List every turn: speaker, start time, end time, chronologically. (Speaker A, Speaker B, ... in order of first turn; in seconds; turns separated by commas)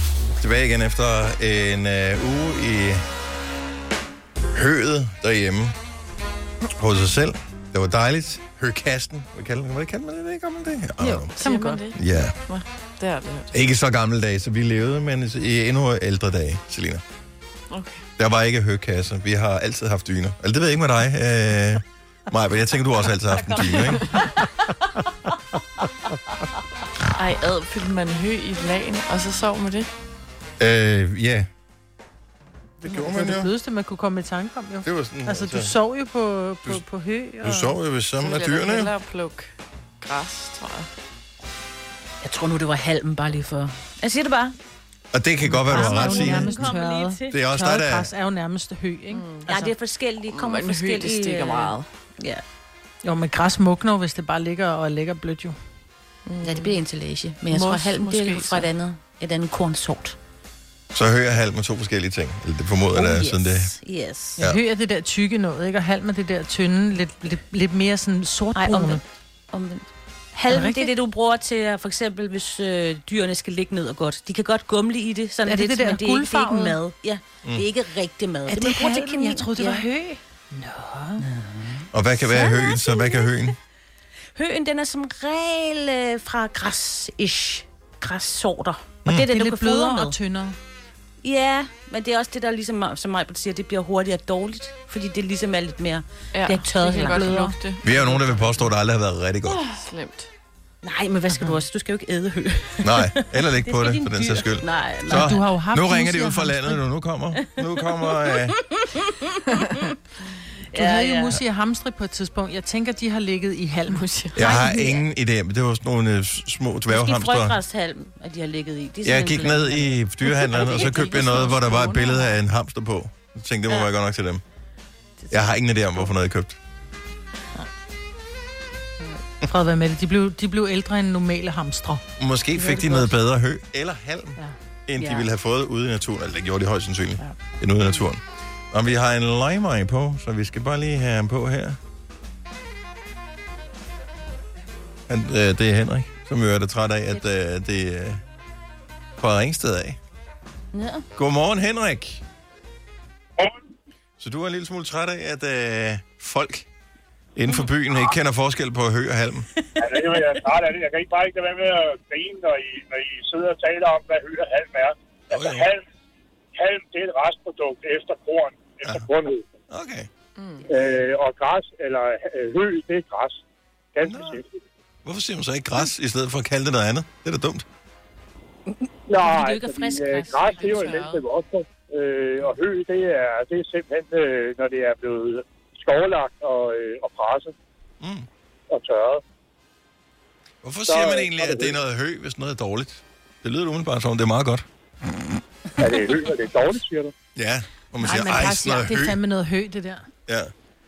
Speaker A: 0.4-3.0, Speaker A: 4.5-5.8, Speaker A: 6.8-11.3, Speaker B: 11.0-11.9, Speaker C: 11.4-13.5, Speaker A: 11.9-12.4, Speaker A: 13.5-17.0, Speaker C: 17.7-18.0, Speaker A: 18.2-24.2, Speaker C: 23.6-24.3, Speaker C: 27.1-29.9, Speaker A: 30.6-31.5, Speaker A: 32.8-33.5, Speaker B: 33.0-37.8, Speaker A: 34.8-35.7, Speaker A: 37.4-38.9, Speaker C: 38.2-40.9, Speaker D: 42.2-44.6, Speaker A: 45.1-46.7, Speaker B: 45.4-49.7, Speaker D: 45.7-47.5, Speaker A: 47.3-48.1, Speaker C: 49.1-49.5, Speaker D: 49.5-52.4, Speaker C: 50.3-51.9, Speaker B: 53.0-55.6, Speaker C: 56.3-56.8, Speaker D: 56.4-60.2, Speaker C: 57.5-58.7, Speaker A: 60.9-63.8, Speaker D: 62.9-64.4, Speaker B: 64.4-69.0, Speaker D: 68.5-79.8, Speaker B: 70.5-70.9, Speaker B: 75.5-76.8, Speaker B: 78.5-81.2, Speaker D: 81.2-83.3, Speaker A: 81.9-83.6, Speaker D: 84.4-90.2, Speaker B: 89.2-90.6, Speaker D: 91.2-97.4, Speaker C: 96.3-98.7, Speaker B: 97.1-97.6, Speaker A: 97.8-99.7, Speaker C: 99.5-100.3, Speaker D: 100.8-105.5, Speaker B: 101.3-101.7, Speaker A: 102.8-108.6, Speaker B: 105.1-106.8, Speaker D: 108.1-109.9, Speaker D: 110.7-111.4, Speaker B: 110.7-114.9, Speaker C: 113.9-114.5, Speaker A: 114.3-117.6, Speaker D: 114.4-115.0, Speaker D: 116.9-120.0, Speaker A: 119.0-124.4, Speaker C: 120.2-122.4, Speaker D: 125.2-126.1, Speaker A: 125.3-126.6, Speaker B: 129.4-132.0, Speaker A: 132.2-141.8, Speaker B: 132.6-133.1, Speaker D: 135.0-135.3, Speaker A: 145.1-148.2, Speaker A: 149.2-150.0, Speaker D: 150.7-151.1, Speaker A: 151.2-152.2, Speaker A: 154.2-156.7, Speaker A: 157.4-159.5, Speaker D: 159.6-160.5, Speaker E: 159.8-165.8, Speaker A: 165.3-165.7, Speaker E: 166.6-169.5, Speaker A: 169.7-170.1, Speaker C: 170.4-170.7, Speaker E: 170.7-173.4, Speaker E: 173.9-174.6, Speaker A: 174.0-174.4, Speaker A: 175.1-177.7, Speaker D: 178.7-181.1, Speaker E: 179.1-187.6, Speaker C: 180.4-181.2, Speaker A: 188.0-188.3, Speaker E: 188.7-189.2, Speaker A: 190.6-194.6, Speaker E: 190.9-191.7, Speaker E: 195.8-197.1, Speaker A: 197.3-199.2, Speaker B: 198.0-200.1